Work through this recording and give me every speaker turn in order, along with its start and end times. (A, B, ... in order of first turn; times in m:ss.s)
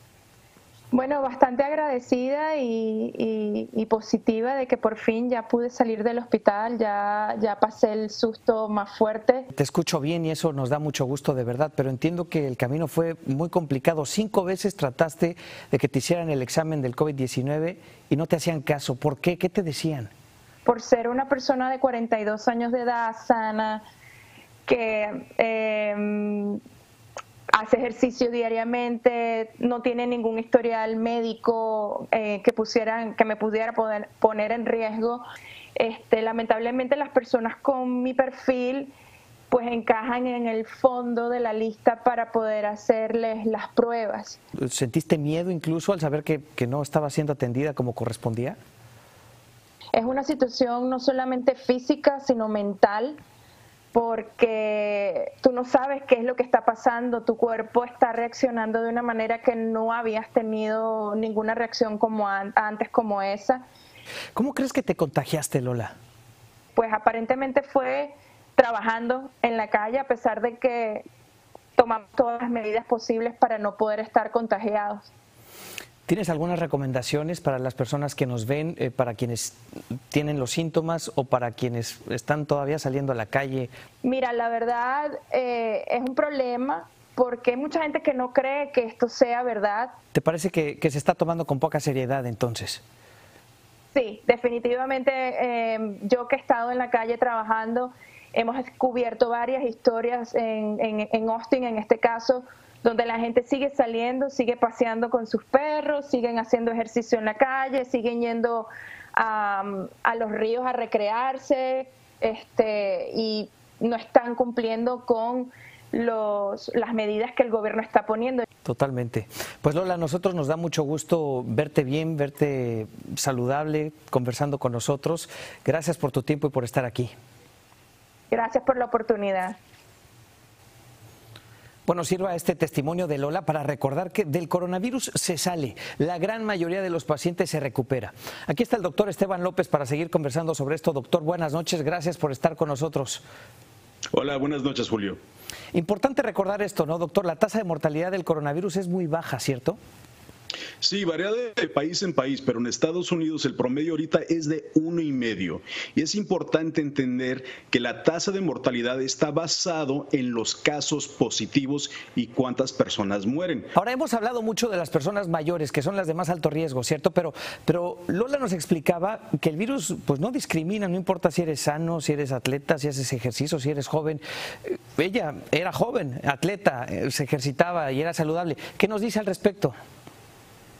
0:00.9-0:09.4 A
0:09.5-0:20.1 B
0:20.6-0:23.8 A
0:24.7-0:26.6 A
0:27.5-0:35.2 A
0:35.8-0:38.9 A
0:39.5-0:44.4 A
0:44.6-0:48.6 B
0:49.9-0:53.2 A
0:53.9-1:03.6 A
1:04.3-1:05.9 B
1:06.7-1:11.0 A
1:11.8-1:15.1 A
1:16.1-1:19.6 B
1:20.1-1:23.7 B
1:24.0-1:29.9 A
1:30.1-1:32.8 B
1:33.9-1:58.4 A
1:58.6-2:07.1 B
2:08.3-2:09.6 A
2:11.8-2:23.2 B
2:24.1-2:25.2 C
2:25.7-2:29.8 B
2:30.8-2:43.7 C
2:43.7-2:59.7 B